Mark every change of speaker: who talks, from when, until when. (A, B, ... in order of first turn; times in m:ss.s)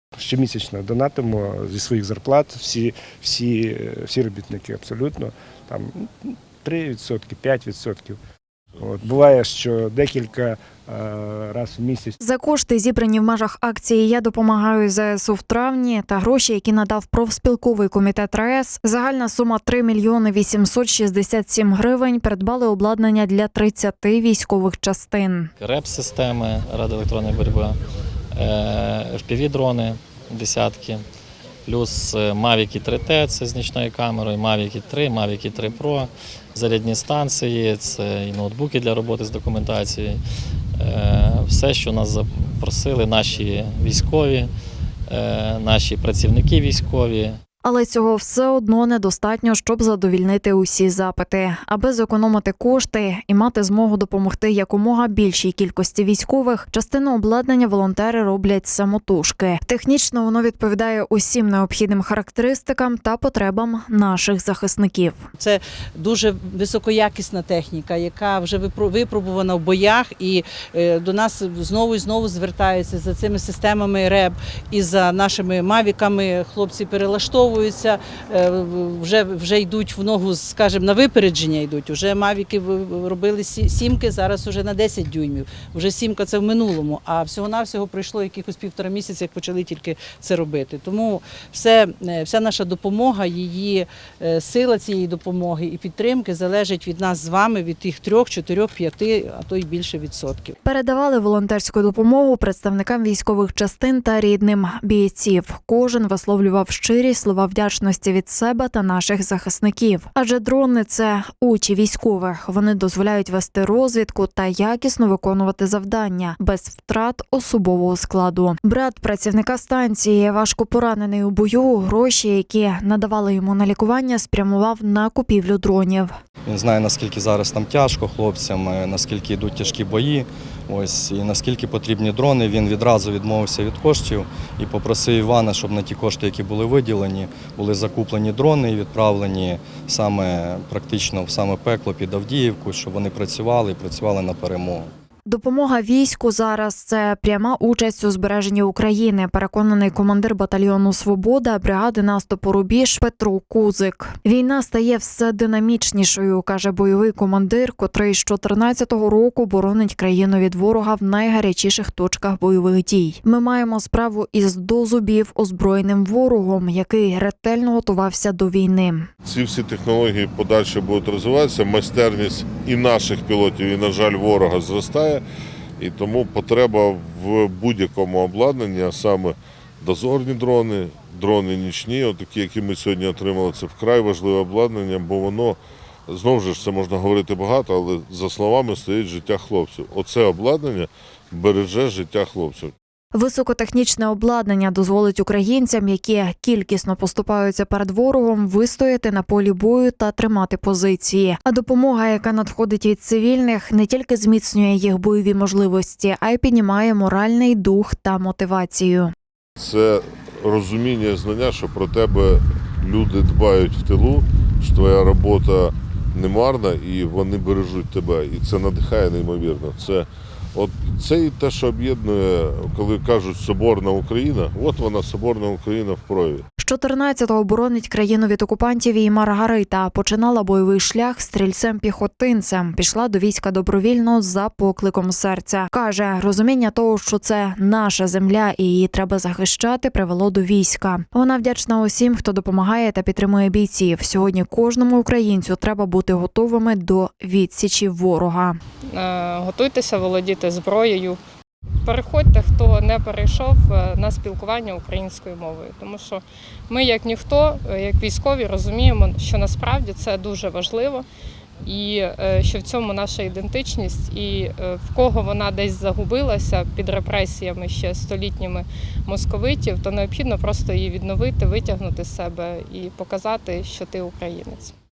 0:00.2-0:08.2 A
0:08.8-0:12.2 A
0:12.2-0:25.5 B
0:25.6-0:27.8 C
0:28.4-0:31.0 C
0:31.7-0:40.2 C
0:40.8-0:44.5 C
0:45.1-0:47.4 C
0:47.6-1:05.3 B
1:05.4-1:40.5 D
1:40.6-2:06.1 B
2:06.5-2:24.9 E
2:25.3-2:49.1 B
2:49.2-2:55.2 F
2:55.8-3:12.7 F
3:13.1-3:29.1 B
3:29.6-3:46.4 F
3:46.6-4:08.6 B
4:08.9-4:11.2 G
4:11.8-4:21.0 G
4:21.7-4:34.7 G